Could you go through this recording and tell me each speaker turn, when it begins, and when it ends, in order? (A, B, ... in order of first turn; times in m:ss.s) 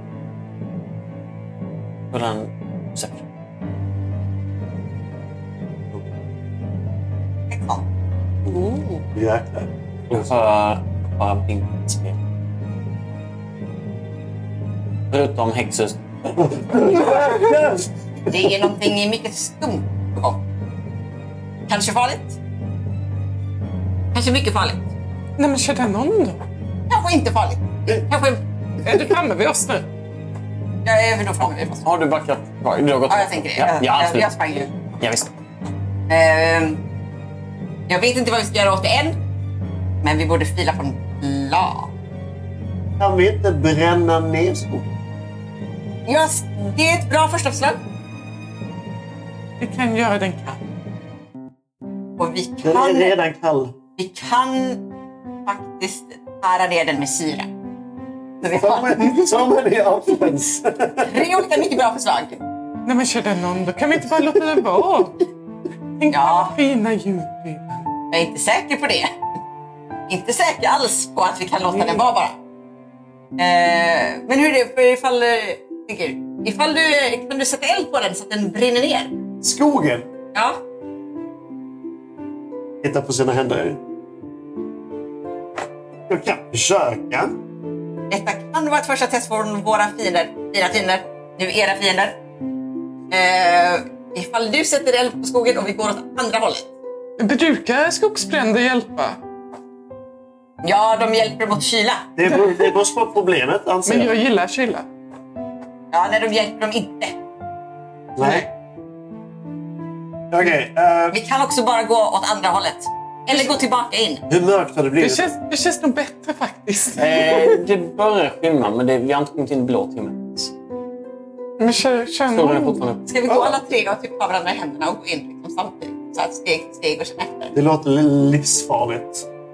0:02.1-0:03.2 A
0:07.5-0:07.8 B
0:08.4-0:10.3 C
0:08.5-0:09.0 D
0:10.1-0:12.2 A
0:15.1-0:16.8 A
0:16.4-0:18.6 C
0:18.3-0:20.4 B
0:21.7-0:22.4 B
0:24.1-0:24.8 B
0:25.4-0:26.4 D
0:26.9-0:28.4 B
0:28.8-0:29.8 D
0:30.8-0:31.8 B
0:31.8-0:34.3 A
0:33.1-0:34.7 B
0:35.0-0:35.3 A
0:36.1-0:36.8 B
0:37.9-0:39.2 B
0:40.0-0:41.9 B
0:43.0-0:44.9 C
0:46.0-0:47.8 B
0:49.6-0:50.6 D
0:52.2-0:53.1 B
0:52.6-0:53.7 C
0:54.0-0:54.8 B
0:55.4-0:57.5 B
0:58.4-0:59.4 B
0:58.4-1:01.2 C
1:01.0-1:02.4 B
1:02.8-1:05.2 D
1:06.0-1:07.8 D
1:06.1-1:06.5 B
1:08.1-1:09.1 B
1:10.1-1:12.3 B
1:13.4-1:19.2 B
1:19.4-1:20.1 C
1:20.3-1:20.6 B
1:22.8-1:23.8 C
1:26.1-1:27.3 C
1:28.1-1:32.2 B
1:33.1-1:36.7 B
1:37.2-1:39.2 D
1:40.6-1:42.1 B
1:42.2-1:44.2 C
1:43.8-1:44.8 D
1:45.9-1:47.2 B
1:48.2-1:48.5 C
1:48.2-1:48.4 D
1:50.3-1:51.2 C
1:51.1-1:54.2 B
1:54.3-1:55.3 C
1:55.0-1:57.6 D
1:57.0-2:00.5 A
2:01.6-2:02.8 D
2:02.3-2:03.1 A
2:03.1-2:07.5 B
2:03.3-2:03.5 C
2:07.5-2:09.3 C